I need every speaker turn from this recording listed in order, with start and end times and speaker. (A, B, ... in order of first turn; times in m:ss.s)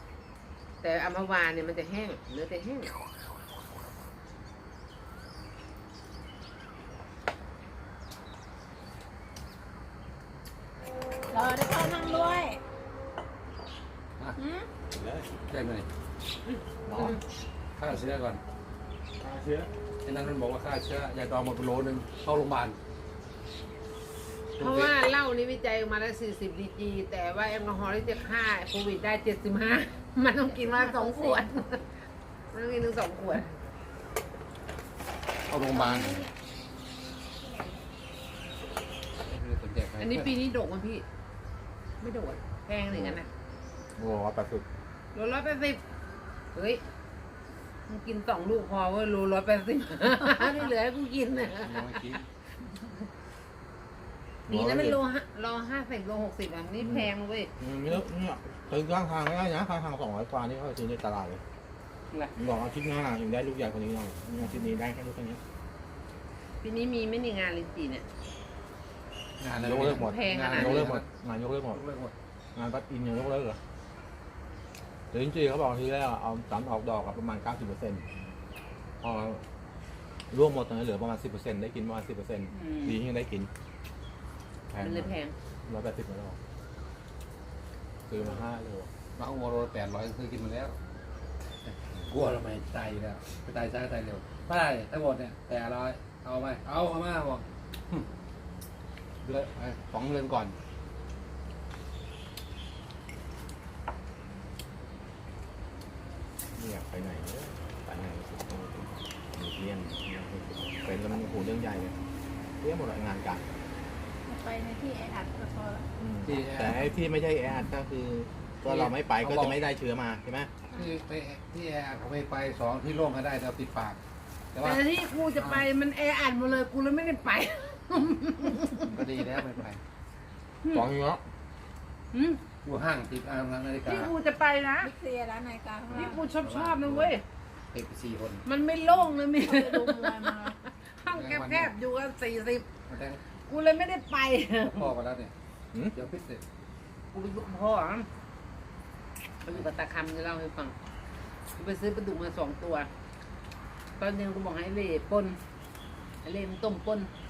0:00.8-0:02.9 A
0:11.3-0:12.6 B
0:14.4-0:14.7 B
0:14.9-0:15.4 C
0:15.5-0:15.9 D
0:16.5-0:17.2 A
0:16.8-0:17.2 C
0:17.8-0:18.4 D
0:19.2-0:19.7 C
0:20.0-0:22.8 D
0:24.6-0:24.9 D
0:24.6-0:31.8 A
0:30.6-0:31.4 B
0:32.5-0:33.6 A
0:35.5-0:36.3 D
0:35.7-0:36.3 B
0:37.4-0:37.8 B
0:39.2-0:40.3 D
0:40.0-0:41.0 A
0:42.0-0:43.3 A
0:42.9-0:43.2 C
0:44.0-0:44.6 C
0:45.1-0:45.8 A
0:46.5-0:46.8 A
0:47.9-0:52.2 A
0:51.6-0:52.2 D
0:54.5-0:55.0 C
0:54.5-0:57.5 A
0:56.8-1:01.4 C
1:02.4-1:05.4 C
1:06.6-1:08.0 A
1:09.4-1:11.1 D
1:09.6-1:11.8 C
1:09.8-1:10.9 A
1:11.6-1:12.1 D
1:12.6-1:13.6 C
1:15.1-1:18.1 C
1:19.0-1:19.4 C
1:20.3-1:23.5 C
1:22.5-1:23.0 A
1:24.7-1:25.1 C
1:24.8-1:25.3 A
1:25.6-1:26.4 C
1:28.1-1:28.9 C
1:29.2-1:30.8 D
1:31.6-1:38.1 D
1:39.2-1:40.6 D
1:46.6-1:52.0 C
1:52.6-1:53.4 C
1:54.3-1:55.9 B
1:56.0-2:00.5 C
1:56.2-1:56.9 D
1:58.6-1:59.6 D
2:00.7-2:04.0 D
2:04.5-2:04.8 D
2:04.6-2:08.9 A
2:05.4-2:05.6 D
2:08.8-2:09.8 D
2:10.6-2:10.9 A
2:10.7-2:11.2 C
2:12.1-2:12.4 A
2:12.6-2:14.1 D
2:13.8-2:14.9 A
2:14.8-2:16.2 B
2:15.9-2:17.2 A
2:16.0-2:17.2 D
2:17.7-2:18.4 D
2:18.4-2:22.7 A
2:19.4-2:20.6 B
2:21.1-2:21.7 D
2:22.8-2:23.2 D
2:23.5-2:24.9 A
2:24.6-2:25.3 D
2:25.9-2:26.4 D
2:27.1-2:28.1 A
2:29.4-2:30.7 A
2:31.6-2:32.9 A
2:34.0-2:35.4 A
2:36.2-2:37.1 A